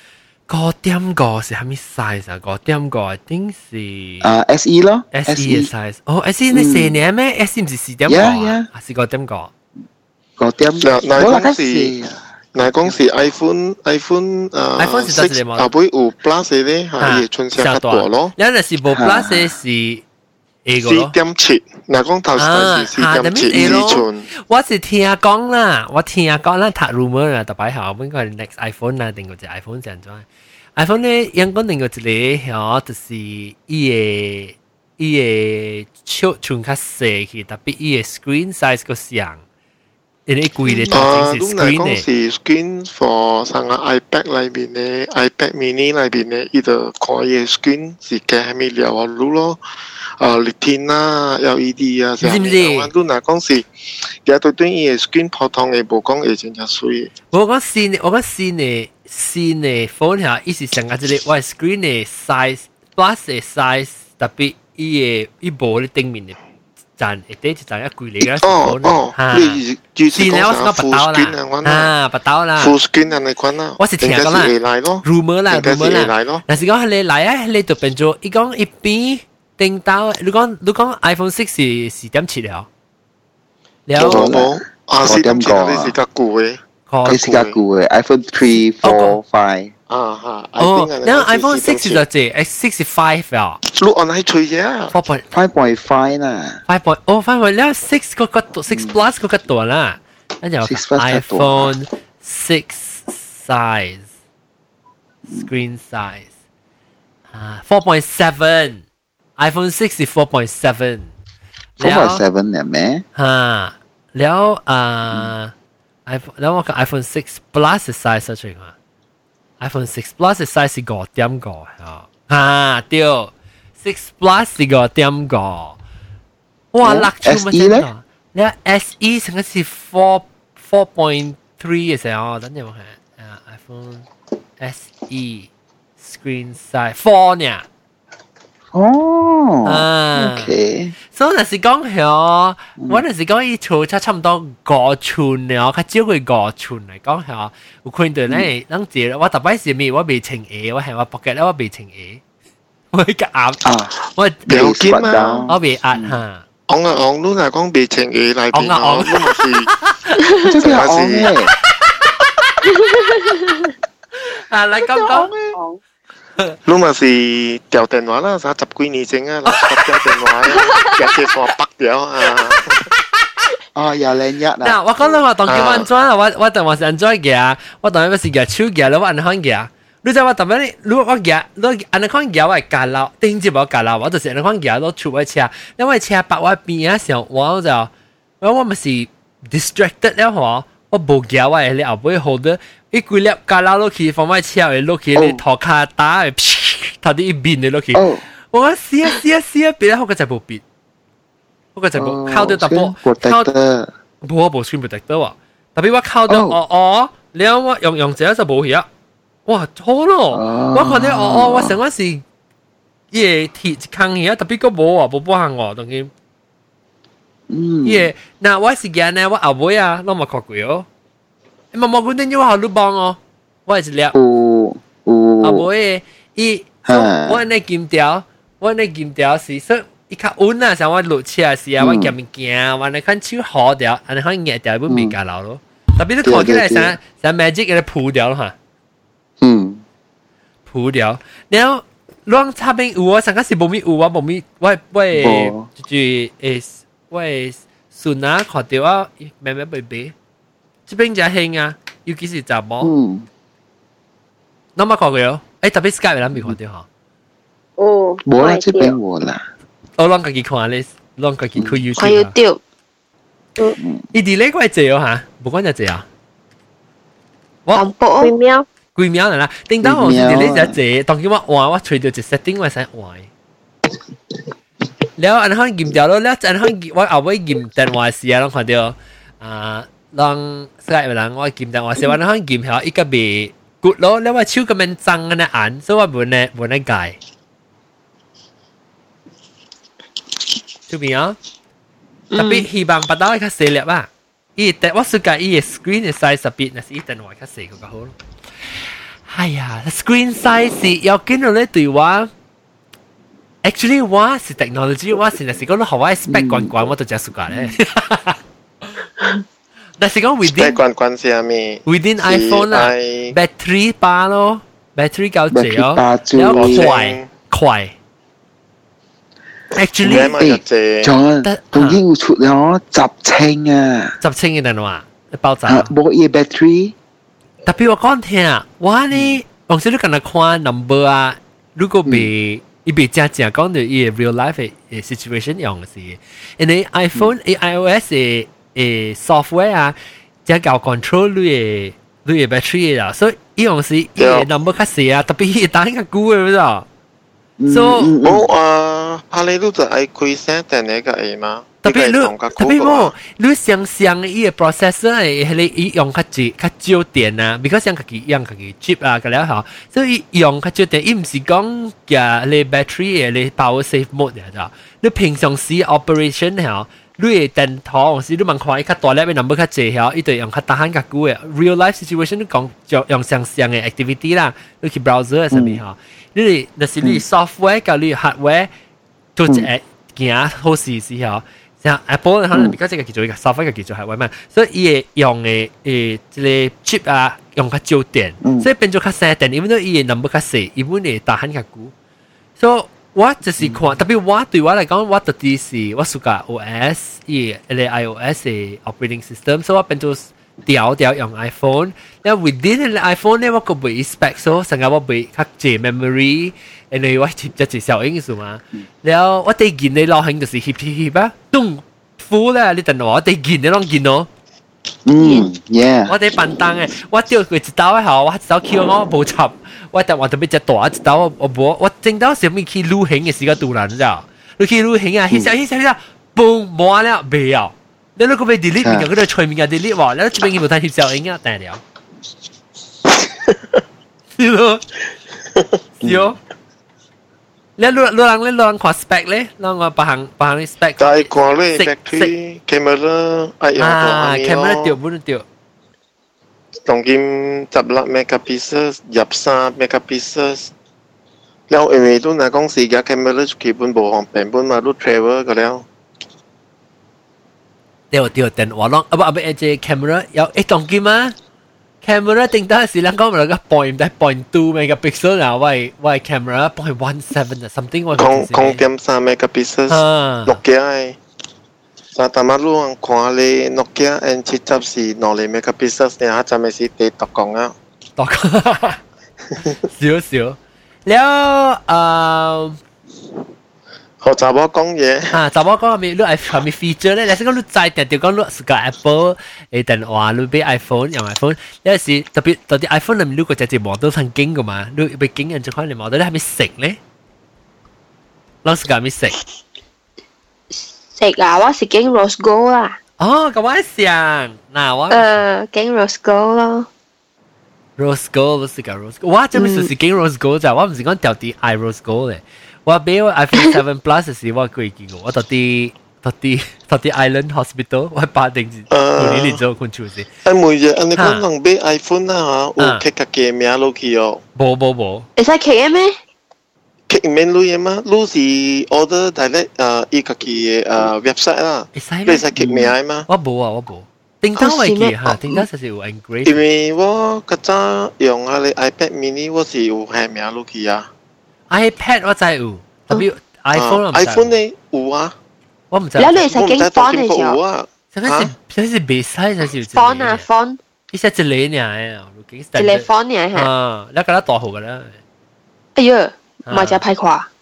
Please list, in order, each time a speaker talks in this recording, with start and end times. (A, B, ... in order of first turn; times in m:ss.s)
0:00.5-0:04.3 A
0:04.2-0:05.7 B
0:05.1-0:09.5 A
0:06.5-0:07.0 B
0:08.1-0:08.7 B
0:10.4-0:13.0 B
0:10.8-0:11.9 C
0:12.6-0:18.4 C
0:14.8-0:15.7 A
0:17.0-0:20.0 A
0:18.9-0:19.5 B
0:20.6-0:21.2 A
0:20.8-0:24.3 C
0:22.4-0:39.4 A
0:23.5-0:23.8 B
0:40.3-0:42.0 A
0:40.7-0:41.0 D
0:40.9-0:49.6 C
0:50.2-0:53.7 C
0:52.2-0:52.9 A
0:54.2-0:57.1 C
0:57.3-1:06.4 A
1:07.0-1:09.6 A
1:08.2-1:11.9 C
1:10.2-1:12.8 A
1:12.6-1:16.4 C
1:13.8-1:22.7 A
1:23.9-1:24.4 A
1:24.0-1:27.6 C
1:24.0-1:26.0 B
1:26.9-1:27.3 A
1:27.1-1:29.7 B
1:28.8-1:29.2 A
1:29.9-1:32.0 C
1:30.6-1:33.6 A
1:33.7-1:34.9 C
1:34.9-1:35.2 A
1:35.3-1:36.6 B
1:36.7-1:44.1 A
1:38.7-1:39.0 B
1:40.6-1:41.7 B
1:45.3-1:46.3 A
1:47.3-1:48.8 A
1:49.4-1:51.1 A
1:51.8-1:52.2 A
1:51.8-1:53.0 B
1:53.2-1:55.5 A
1:56.1-1:58.7 A
1:59.6-2:05.8 A
2:06.7-2:14.1 A
2:06.8-2:07.9 B
2:14.6-2:15.5 A
2:16.0-2:17.6 A
2:18.7-2:20.9 B
2:19.6-2:20.5 A
2:21.1-2:32.2 A
2:22.8-2:23.0 B
2:32.9-2:36.4 A
2:33.6-2:33.9 B
2:34.5-2:36.2 B
2:34.5-2:35.5 C
2:36.7-2:39.7 C
2:38.5-2:40.2 A
2:40.4-2:41.5 B
2:40.6-2:41.3 C
2:44.2-2:45.3 A
2:45.5-2:45.8 E
2:46.6-2:52.9 C
2:49.5-2:49.9 A
2:53.8-2:54.8 B
2:54.6-3:07.9 A
2:55.5-2:55.9 C
3:08.4-3:20.6 A
3:15.2-3:15.4 B
3:17.9-3:18.2 B
3:21.8-3:23.5 A
3:22.0-3:23.9 B
3:24.2-3:28.9 A
3:26.3-3:26.6 B
3:29.5-3:32.2 A
3:30.3-3:31.8 B
3:33.1-3:36.1 A
3:37.5-3:38.1 B
3:37.8-3:40.9 A
3:41.7-3:44.2 A
3:44.1-3:45.7 B
3:45.4-3:58.5 A
3:46.9-3:47.4 B
3:51.8-3:52.2 B
3:54.9-3:55.2 B
3:56.2-3:57.0 B
3:59.4-3:59.8 B
4:00.7-4:10.1 A
4:05.1-4:05.7 B
4:10.9-4:12.9 A
4:12.8-4:13.3 B
4:14.8-4:16.8 A
4:17.8-4:19.0 E
4:18.2-4:19.4 B
4:20.0-4:22.3 A
4:21.6-4:21.8 B
4:22.0-4:22.6 D
4:24.1-4:26.0 A
4:27.7-4:28.3 D
4:28.2-4:28.7 E
4:29.0-4:33.3 A
4:29.8-4:30.8 B
4:35.2-4:47.2 A
4:50.9-4:51.4 A
4:52.3-4:52.7 D
4:52.4-4:58.1 A
4:59.3-5:02.3 A
5:03.6-5:09.0 A
5:06.3-5:06.9 B
5:07.5-5:07.8 B
5:10.0-5:10.8 A
5:10.4-5:13.4 C
5:11.9-5:17.9 A
5:15.5-5:16.9 B
5:16.5-5:17.3 C
5:19.8-5:20.4 A
5:20.0-5:21.1 C
5:20.0-5:24.2 B
5:21.4-5:22.0 A
5:24.2-5:25.9 A
5:25.7-5:27.0 B
5:27.6-5:40.0 A
5:29.1-5:29.4 B
5:40.5-5:46.9 A
5:44.2-5:44.5 C
5:47.6-5:48.5 B
5:47.7-5:48.1 A
5:48.2-5:53.2 C
5:51.8-6:18.7 A
6:15.5-6:15.8 B
6:19.4-6:31.9 A
6:28.4-6:28.7 B
6:32.6-6:54.3 A
6:55.1-6:56.1 B
6:56.1-7:11.8 A
7:08.8-7:09.1 B
7:14.4-7:14.8 A
7:16.0-7:16.4 A
7:16.0-7:16.3 B
7:17.8-7:22.3 A
7:21.0-7:25.0 C
7:23.8-7:25.4 A
7:26.9-7:30.7 C
7:31.7-7:35.8 C
7:38.1-7:41.4 A
7:42.0-7:48.8 A
7:48.1-7:51.2 C
7:49.9-7:50.6 A
7:52.1-7:57.8 C
7:58.2-7:59.0 A
7:59.9-8:02.8 A
8:04.2-8:05.4 C
8:05.3-8:17.0 A
8:18.6-8:19.4 A
8:21.1-8:23.0 D
8:23.2-8:25.4 A
8:25.1-8:26.9 D
8:28.0-8:40.3 A
8:29.6-8:29.9 D
8:38.9-8:39.6 C
8:40.4-8:44.4 C
8:41.2-8:41.5 A
8:42.8-8:43.0 A
8:44.6-8:45.3 A
8:45.4-8:46.2 D
8:47.1-8:53.3 C
8:52.0-8:56.6 A
8:54.6-8:55.6 D
8:56.4-9:01.1 C
9:01.7-9:04.6 A
9:03.7-9:05.3 C
9:05.9-9:06.6 A
9:06.2-9:07.6 D
9:06.5-9:08.5 C
9:08.1-9:10.4 A
9:09.9-9:10.8 D
9:11.1-9:15.2 A
9:12.8-9:13.7 D
9:16.0-9:17.5 D
9:16.7-9:17.0 A